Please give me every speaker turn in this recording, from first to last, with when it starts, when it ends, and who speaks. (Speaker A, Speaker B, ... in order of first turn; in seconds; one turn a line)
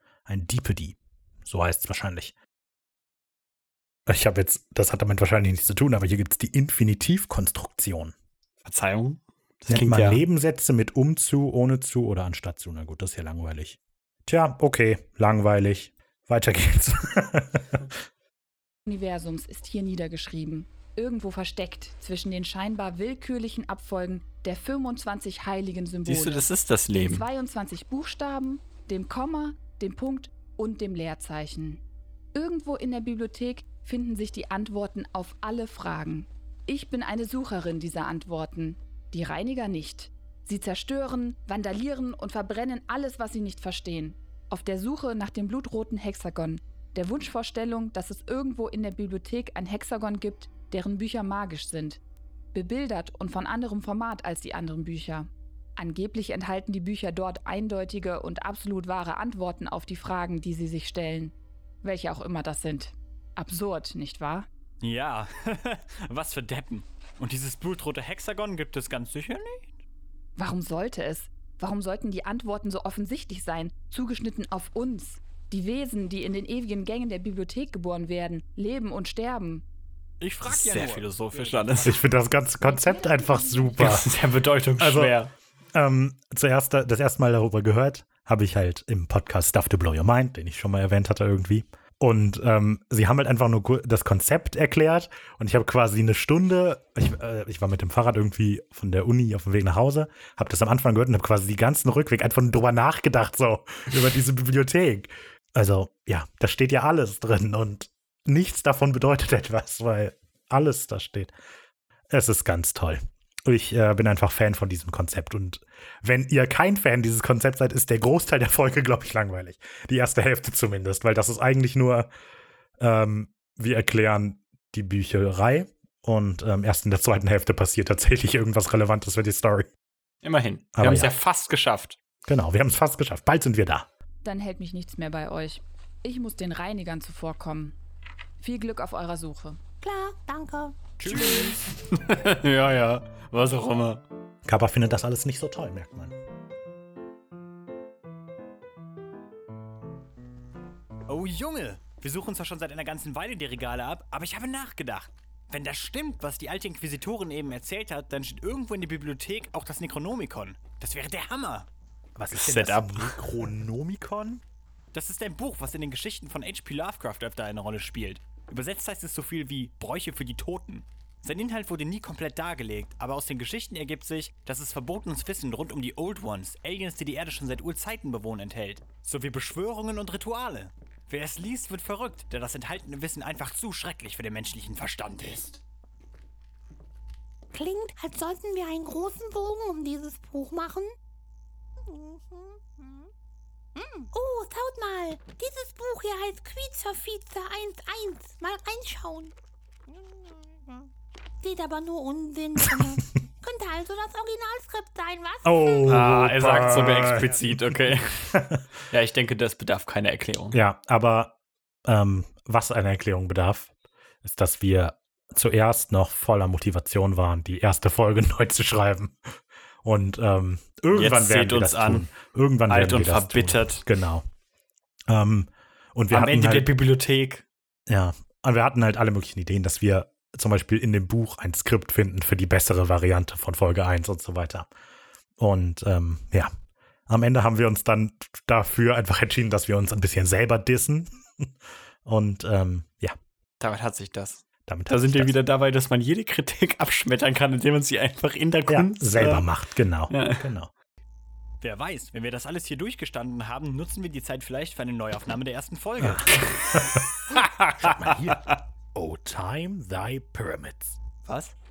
Speaker A: 0.3-2.3
Speaker A: 4.1-8.2
Speaker B: 8.7-10.2
Speaker A: 9.7-17.9
Speaker C: 18.9-31.8
Speaker B: 26.1-27.2
Speaker C: 32.3-52.0
Speaker C: 52.5-64.5
Speaker D: 64.8-69.8
Speaker C: 70.4-79.6
Speaker D: 80.2-82.0
Speaker B: 80.4-82.0
Speaker A: 81.8-84.1
Speaker C: 82.6-84.0
Speaker B: 83.8-85.3
Speaker A: 84.8-85.2
Speaker A: 85.7-111.3
Speaker A: 112.1-122.1
Speaker A: 122.8-129.7
Speaker B: 130.2-132.0
Speaker A: 130.8-131.1
Speaker A: 132.3-133.9
Speaker C: 134.2-137.8
Speaker C: 138.4-139.6
Speaker E: 139.8-141.5
Speaker B: 141.1-144.0
Speaker A: 144.5-146.1
Speaker D: 151.1-161.7
Speaker A: 162.2-164.4
Speaker B: 162.3-163.2
Speaker D: 164.9-185.6
Speaker E: 187.5-190.9
Speaker E: 191.8-193.1
Speaker E: 193.8-199.3
Speaker E: 199.9-200.9
Speaker E: 201.4-206.0
Speaker A: 205.4-208.6
Speaker B: 205.8-208.4
Speaker B: 208.9-210.6
Speaker A: 210.5-213.7
Speaker A: 214.2-219.2
Speaker A: 219.8-224.2
Speaker B: 220.9-222.1
Speaker B: 222.7-223.8
Speaker A: 225.1-226.8
Speaker B: 226.1-227.4
Speaker A: 227.9-234.7
Speaker A: 235.4-236.5
Speaker A: 237.1-241.5
Speaker A: 242.1-243.2
Speaker B: 243.6-249.5
Speaker A: 244.7-245.4
Speaker A: 248.7-250.7
Speaker B: 250.1-250.5
Speaker D: 251.6-256.5
Speaker A: 256.0-261.0
Speaker D: 261.2-261.6